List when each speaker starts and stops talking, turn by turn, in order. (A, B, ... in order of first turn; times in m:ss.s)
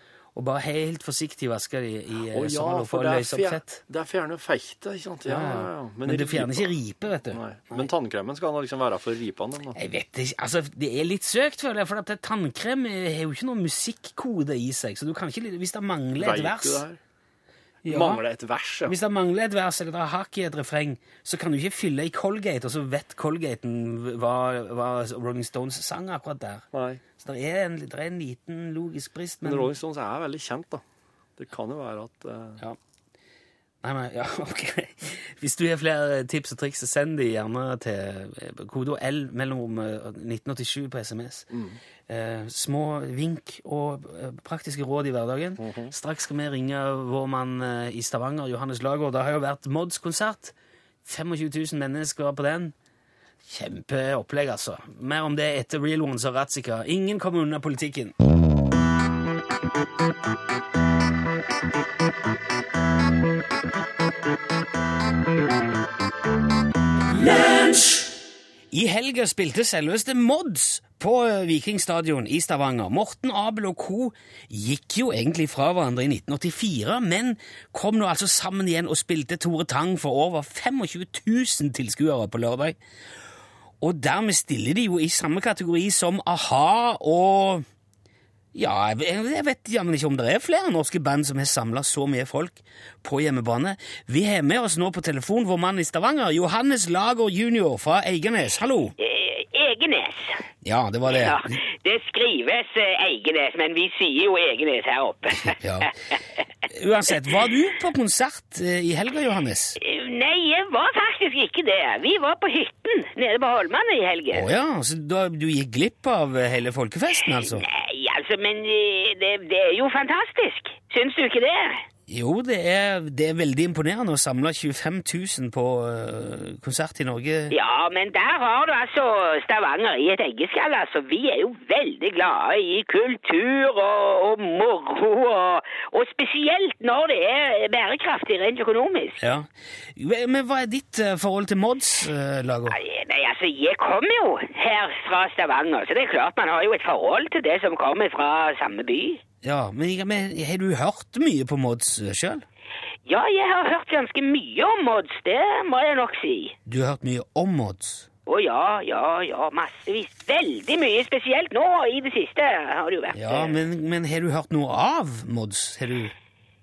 0:00.3-0:03.8 A
0:02.3-0:06.7 B
0:05.2-0:07.9 A
0:07.3-0:09.8 B
0:09.8-0:16.8 A
0:16.1-0:17.0 B
0:17.8-0:18.2 A
0:17.9-0:18.9 B
0:18.8-0:29.7 A
0:26.7-0:27.0 B
0:29.4-0:30.8 B
0:31.4-0:32.6 B
0:33.8-0:41.5 A
0:41.5-0:41.8 B
0:42.1-0:52.7 A
0:45.6-0:45.9 B
0:53.4-0:58.1 A
1:08.7-1:22.8 A
1:23.8-1:27.6 A
1:28.5-1:38.9 A
1:39.0-1:40.4 C
1:40.6-1:41.6 A
1:41.1-1:45.6 C
1:45.4-1:45.9 A
1:46.7-1:49.8 A
1:49.8-1:54.5 C
1:54.3-1:57.6 A
1:57.2-2:01.8 C
2:02.1-2:07.5 A
2:07.5-2:19.2 C
2:19.2-2:22.8 A
2:22.7-2:29.2 C
2:29.4-2:32.4 A
2:33.1-2:36.6 C
2:36.6-2:38.1 A
2:38.3-2:43.6 C
2:43.1-2:46.1 A